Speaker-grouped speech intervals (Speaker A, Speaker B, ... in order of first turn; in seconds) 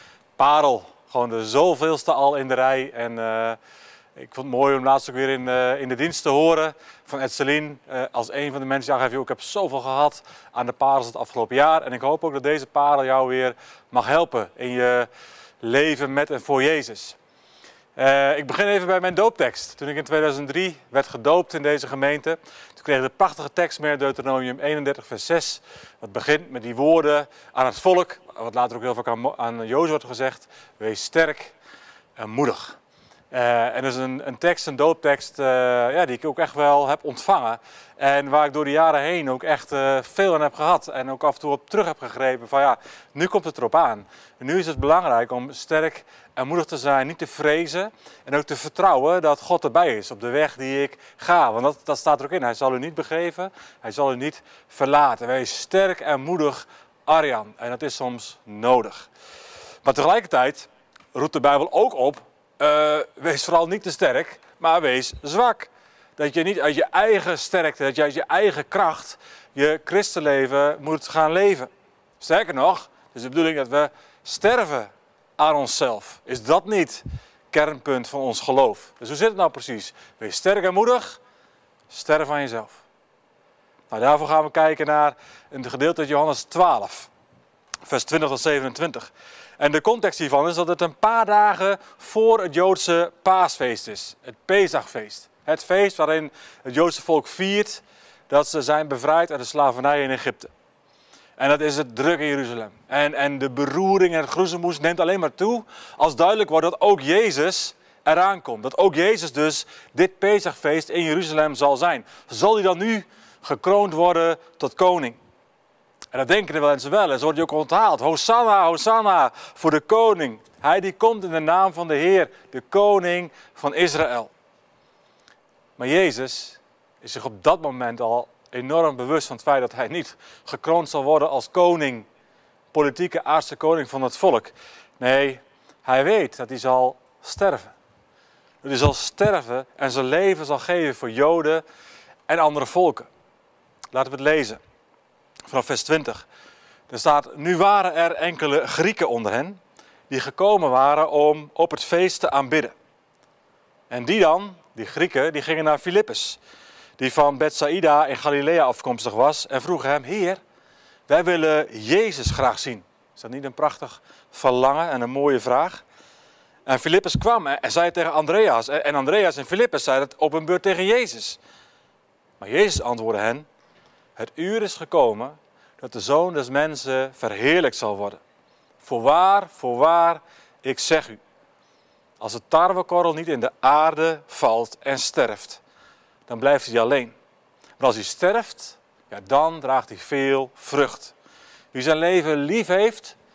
Speaker A: 0.4-3.6, 4.2-15.1, 15.6-17.2, 17.9-31.5, 32.2-32.8, 33.3-59.1, 59.8-81.2, 81.9-82.8, 83.9-87.1, 87.8-100.5, 101.4-115.2, 116.1-124.3, 125.8-132.1, 132.7-137.7, 138.6-141.6, 142.3-143.1, 143.9-144.6, 145.4-146.3, 146.9-152.7, 153.9-156.4, 157.0-160.4, 161.1-165.8, 166.7-171.4, 172.4-173.5, 174.2-178.2, 178.8-181.2, 182.2-185.6, 186.3-187.1, 187.8-191.1, 191.7-193.2